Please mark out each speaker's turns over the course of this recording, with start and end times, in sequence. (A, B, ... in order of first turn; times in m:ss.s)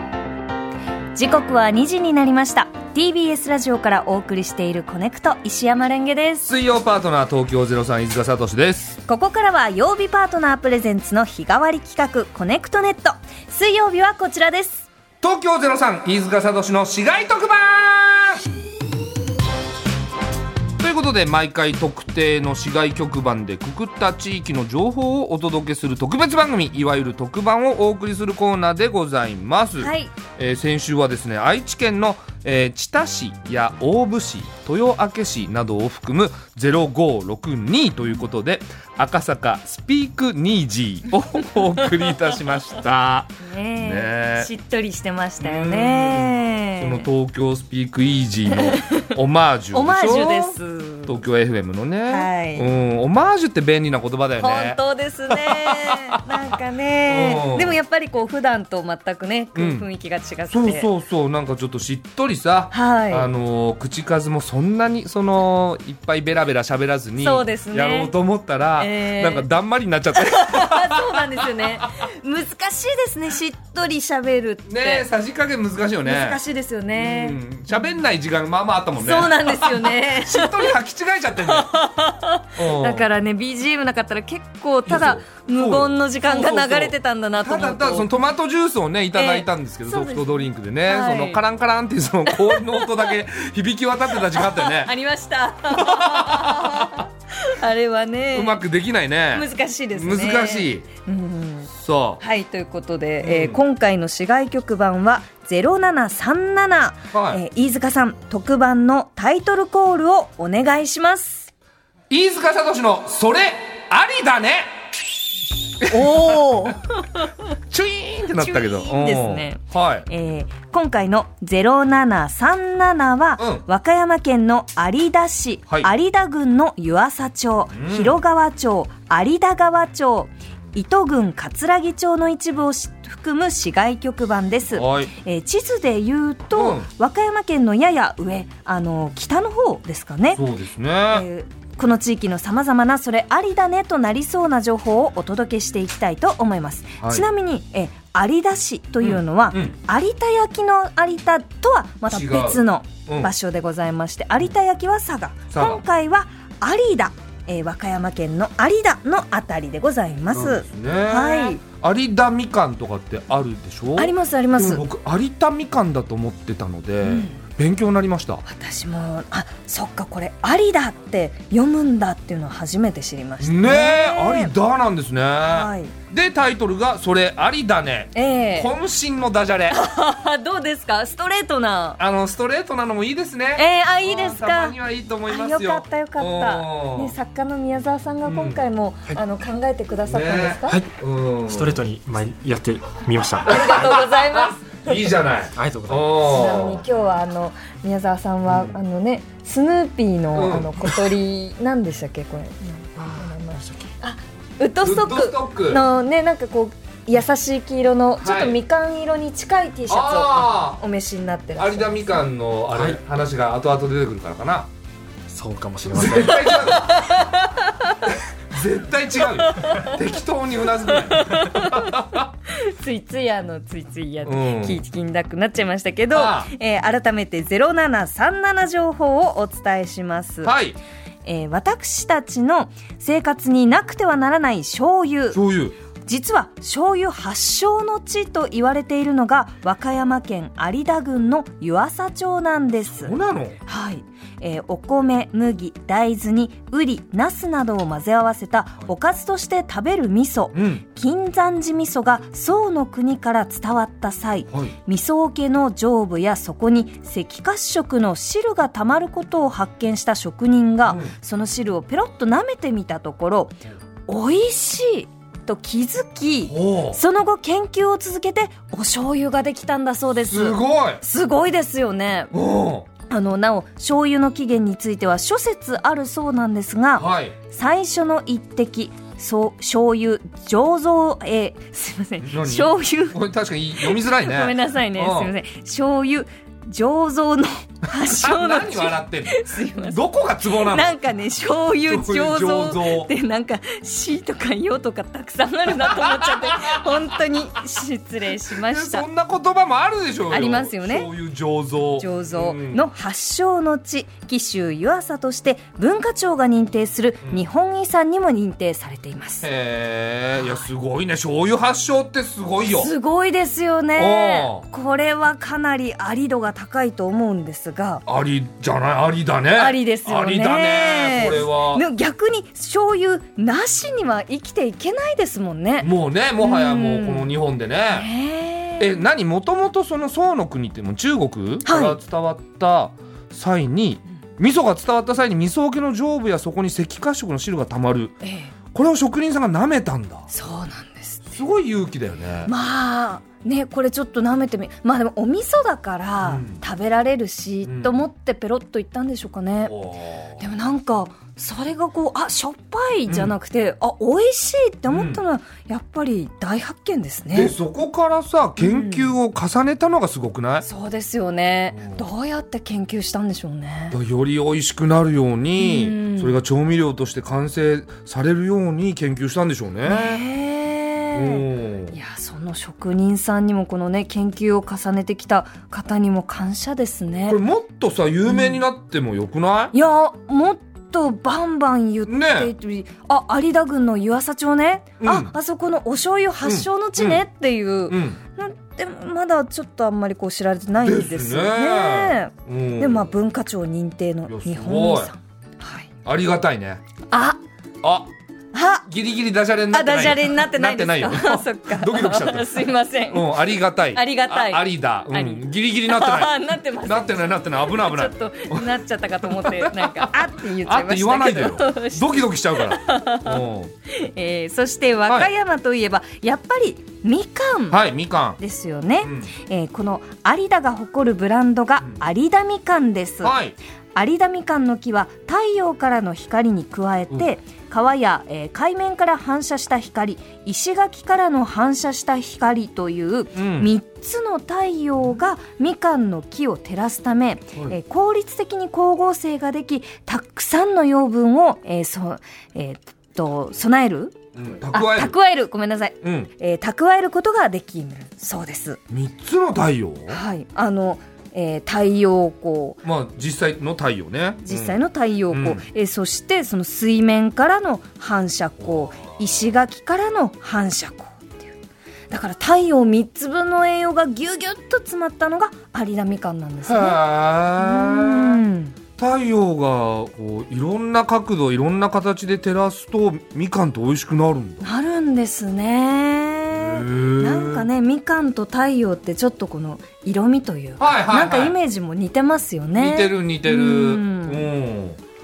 0:01.2-0:06.5 A
0:06.5-0:09.0 B
0:09.1-0:14.9 A
0:15.2-0:18.4 B
0:20.8-0:44.5 B
0:29.8-0:30.2 A
0:43.4-0:47.1 A
0:45.4-0:56.4 B
0:48.5-0:49.2 A
0:49.7-0:51.1 A
0:52.1-0:52.7 A
0:54.4-1:00.9 A
0:57.1-0:57.8 B
0:59.6-0:59.9 B
1:00.5-1:11.7 B
1:02.7-1:03.3 A
1:07.2-1:08.1 A
1:08.8-1:09.5 A
1:10.2-1:15.1 A
1:14.7-1:16.4 B
1:16.0-1:17.4 A
1:17.0-1:21.7 B
1:19.0-1:20.7 A
1:21.4-1:28.1 A
1:22.6-1:23.1 B
1:24.9-1:34.9 B
1:29.1-1:31.4 A
1:32.3-1:33.1 A
1:34.3-1:38.6 A
1:35.7-1:37.0 B
1:38.3-1:40.8 B
1:39.3-1:51.5 A
1:41.7-1:42.2 B
1:43.2-1:43.6 B
1:47.1-1:47.4 B
1:52.1-1:54.7 B
1:55.8-1:56.2 B
1:55.8-1:57.4 A
1:57.7-2:00.1 B
1:58.3-2:20.4 A
2:03.4-2:03.6 B
2:07.7-2:08.2 B
2:14.7-2:15.1 B
2:16.5-2:16.9 B
2:20.4-2:21.3 B
2:21.1-2:41.6 A
2:27.0-2:27.3 B
2:29.0-2:29.7 B
2:32.1-2:33.3 B
2:35.5-2:35.8 B
2:40.3-2:48.4 B
2:44.0-2:44.8 A
2:47.0-2:47.4 A
2:48.4-2:54.5 A
2:53.4-2:59.8 B
2:55.4-2:56.0 A
2:58.1-2:58.7 A
2:59.7-3:02.0 A
3:02.0-3:07.1 B
3:03.6-3:04.8 A
3:05.3-3:10.8 A
3:08.3-3:08.6 B
3:10.1-3:11.8 B
3:10.7-3:13.8 C
3:13.4-3:15.2 A
3:13.5-3:16.8 B
3:15.6-3:16.3 C
3:16.2-3:32.1 A
3:18.5-3:18.8 B
3:20.3-3:21.1 B
3:23.0-3:23.9 C
3:24.8-3:25.8 B
3:28.2-3:28.6 B
3:29.9-3:30.8 B
3:31.6-3:34.7 B
3:32.7-3:33.0 C
3:35.3-3:36.8 C
3:35.9-3:37.1 B
3:36.7-3:38.1 A
3:38.5-3:42.3 B
3:39.2-3:40.0 A
3:40.8-3:50.5 A
3:44.2-3:44.8 B
3:46.1-3:46.5 B
3:50.4-3:50.8 B
3:51.2-3:55.4 A
3:55.3-3:55.8 B
3:56.0-4:32.4 A
4:02.9-4:03.6 B
4:10.6-4:10.8 B
4:14.5-4:14.8 B
4:20.9-4:21.1 B
4:26.5-4:27.0 B
4:30.3-4:31.0 B
4:32.3-4:32.9 B
4:33.1-4:43.2 A
4:37.0-4:37.4 B
4:42.2-4:45.3 B
4:43.8-4:59.1 A
4:47.9-4:50.9 B
4:51.8-4:53.1 B
4:55.8-4:56.9 B
4:58.7-5:02.9 B
5:00.3-5:01.1 A
5:02.0-5:09.5 A
5:09.4-5:12.9 B
5:12.6-5:18.0 A
5:14.0-5:14.7 B
5:18.1-5:21.8 B
5:19.6-5:27.3 A
5:25.8-5:28.1 B
5:27.9-5:29.0 A
5:28.8-5:38.2 B
5:31.6-5:32.0 A
5:38.2-5:38.5 A
5:38.7-5:40.3 B
5:40.3-5:41.4 A
5:41.3-5:42.5 B
5:42.5-5:49.7 A
5:46.2-5:46.6 B
5:47.6-5:48.1 B
5:49.6-5:50.4 B
5:50.4-5:57.6 A
5:53.1-5:53.3 B
5:54.9-5:55.2 B
5:57.3-6:00.7 B
5:58.6-5:59.2 A
6:00.6-6:04.0 A
6:01.7-6:02.0 B
6:03.9-6:10.2 B
6:05.6-6:06.4 A
6:09.9-6:17.4 A
6:11.1-6:12.0 B
6:17.3-6:19.7 B
6:18.3-6:18.6 A
6:19.7-6:35.9 A
6:22.1-6:22.5 B
6:25.0-6:25.3 B
6:26.4-6:27.2 B
6:27.9-6:28.2 B
6:30.8-6:33.1 B
6:34.3-6:35.1 B
6:36.0-6:36.8 B
6:37.1-6:37.4 A
6:37.8-6:38.1 B
6:38.5-6:38.8 A
6:38.9-6:48.7 B
6:39.7-6:57.8 A
6:49.2-6:53.7 B
6:57.7-6:58.4 B
6:58.4-7:03.4 A
6:59.0-6:59.3 B
7:03.2-7:03.6 B
7:04.0-7:24.2 A
7:13.4-7:13.7 B
7:24.4-7:25.2 B
7:24.7-7:28.8 A
7:26.0-7:26.3 B
7:28.9-7:30.2 B
7:30.1-7:32.8 A
7:32.8-7:34.8 B
7:34.4-7:41.5 A
7:35.3-7:35.6 B
7:42.1-7:47.0 A
7:46.7-7:48.4 B
7:47.6-7:48.8 A
7:49.0-7:54.6 B
7:54.6-8:04.5 A
7:56.5-7:57.7 B
8:00.8-8:01.6 B
8:02.8-8:05.0 B